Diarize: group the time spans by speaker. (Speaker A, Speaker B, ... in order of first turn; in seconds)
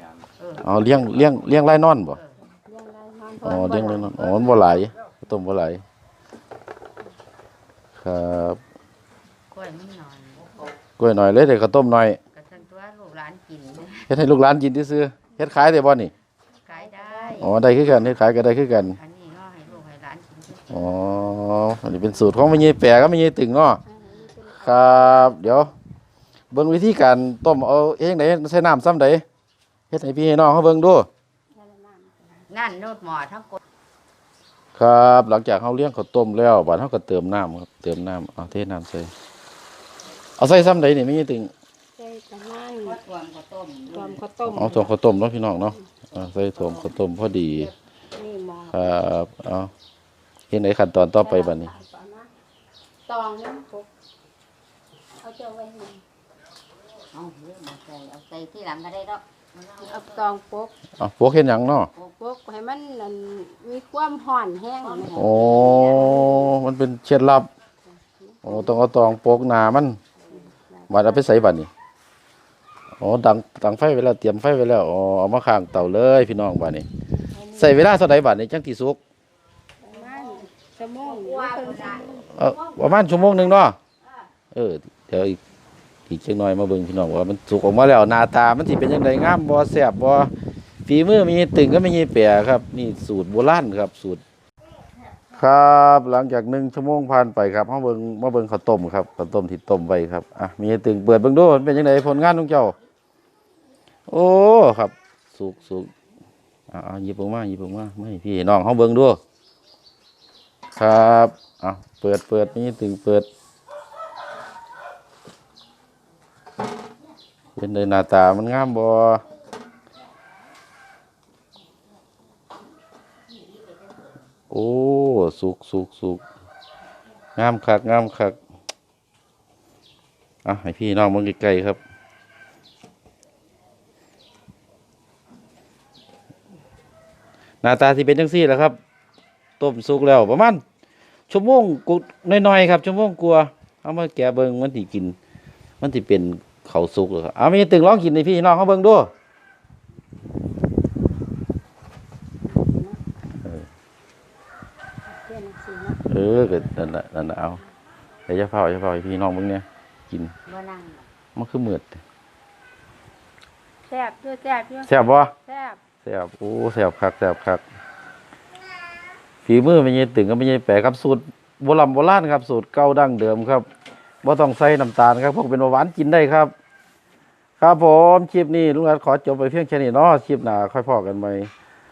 Speaker A: 0.4-0.7, 2.1-2.4, 9.5-10.5, 12.3-14.1, 16.6-17.5, 18.9-21.1, 32.5-33.6, 42.8-44.2, 46.2-46.8, 57.1-60.2, 64.8-66.5, 81.0-83.5, 160.5-161.1
Speaker B: 0.6-2.2, 3.4-5.8, 8.0-8.6, 11.0-12.2, 14.1-16.1, 17.4-19.0, 20.7-23.8, 24.6-25.7, 26.5-29.2, 29.9-31.1, 34.8-39.1, 40.4-41.5, 44.5-47.7, 48.7-49.7, 50.5-51.7, 61.0-61.9, 65.2-67.5, 68.4-70.0, 70.9-71.7, 73.0-76.9, 77.5-79.0, 82.2-83.8, 84.5-85.4, 86.1-90.3, 90.9-94.2, 95.3-102.8, 104.1-105.9, 106.7-109.2, 110.8-113.3, 117.6-119.2, 124.5-126.2, 127.4-128.4, 130.4-131.8, 137.6-138.8, 139.6-140.6, 141.3-145.2, 145.8-149.1, 153.4-153.7, 156.1-157.6, 158.3-160.3, 161.4-162.0, 164.9-165.3, 166.0-167.6, 169.4-173.7, 174.2-176.5, 177.6-181.5
Speaker C: 2.5-4.3, 16.7-17.5, 23.9-25.4, 31.5-32.5, 42.0-43.0, 43.9-45.0, 47.4-49.0, 51.2-52.3, 53.1-53.9, 55.2-56.0, 59.8-60.7, 62.0-65.2, 67.9-68.8, 70.2-71.4, 77.2-77.8, 79.8-82.3, 152.4-153.0, 155.1-156.0, 163.9-165.8